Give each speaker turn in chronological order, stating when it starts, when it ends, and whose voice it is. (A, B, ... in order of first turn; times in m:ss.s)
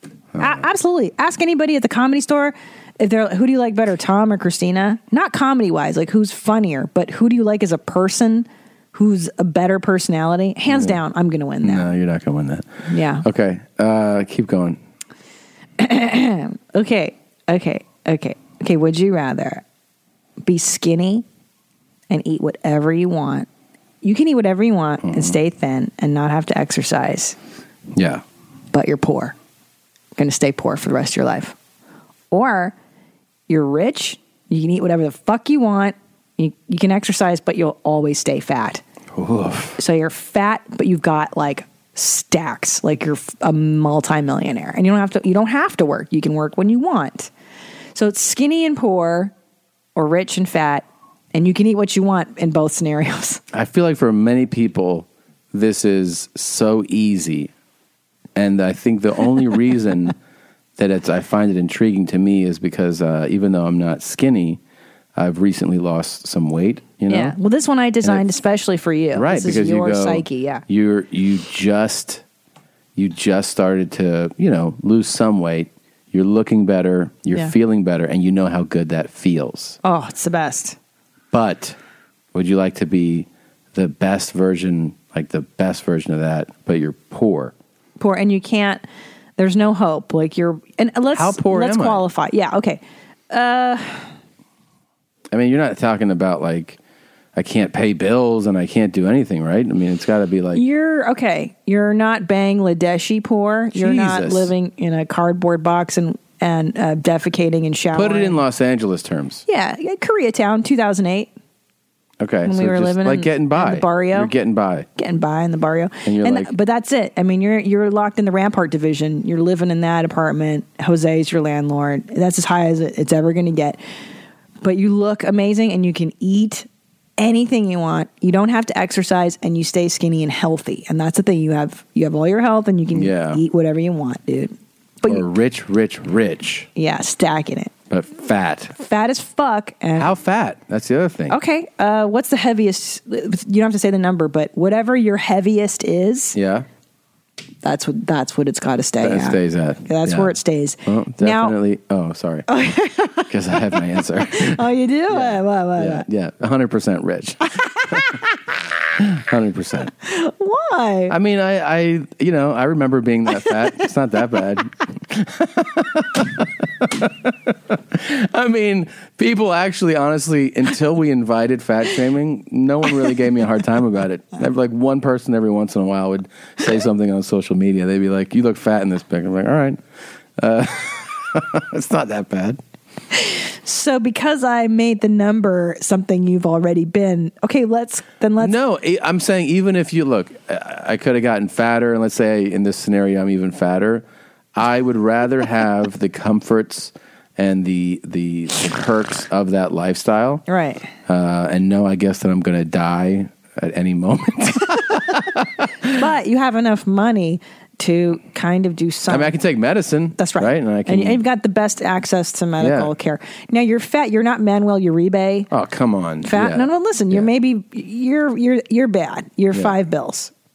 0:00.3-0:00.6 A
0:00.4-0:11.9 B
0:10.7-0:11.0 A
0:11.6-0:14.8 A
0:12.9-0:13.2 B
0:15.8-0:19.6 B
0:20.4-0:21.2 B
0:22.1-0:23.5 B
0:24.0-0:27.4 B
0:25.0-0:25.4 A
0:27.9-0:28.2 A
0:28.7-0:29.3 B
0:30.2-0:31.5 B
0:32.3-0:32.7 B
0:33.5-0:38.8 B
0:39.1-0:39.8 A
0:39.8-0:47.3 B
0:47.9-0:49.3 B
0:49.9-0:53.4 B
0:53.5-0:57.5 A
0:58.3-1:00.2 A
1:00.8-1:04.6 A
1:05.2-1:07.4 A
1:07.1-1:10.6 B
1:09.1-1:12.2 A
1:12.9-1:19.8 A
1:19.8-1:20.8 B
1:21.3-1:21.8 A
1:22.3-1:27.5 A
1:28.0-1:28.8 B
1:29.4-1:34.1 B
1:31.1-1:32.0 A
1:35.3-1:36.8 A
1:37.3-1:40.6 A
1:40.5-1:48.4 B
1:43.7-1:44.5 A
1:47.9-1:49.4 A
1:49.5-1:51.3 B
1:52.2-1:54.8 A
1:52.4-1:54.3 B
1:55.0-2:03.8 B
1:56.0-1:56.5 A
2:04.6-2:06.7 B
2:07.2-2:15.2 B
2:12.9-2:13.4 A
2:15.0-2:16.7 A
2:16.8-2:17.7 B
2:17.9-2:18.8 A
2:18.8-2:20.1 B
2:20.0-2:21.4 A
2:21.3-2:26.4 B
2:26.3-2:26.7 A
2:27.6-2:31.5 B
2:29.0-2:32.4 A
2:32.5-2:33.3 B
2:33.3-2:38.0 A
2:34.3-2:36.0 B
2:39.0-2:39.9 A
2:40.0-2:41.2 B
2:41.1-2:59.8 A
3:00.4-3:02.6 A
3:03.1-3:08.5 B
3:08.4-3:14.0 A
3:14.5-3:20.4 A
3:20.5-3:20.8 B
3:21.0-3:25.9 A
3:25.9-3:29.3 B
3:29.1-3:31.2 A
3:30.2-3:35.5 B
3:32.6-3:32.9 A
3:35.5-3:37.3 A
3:36.2-3:40.3 B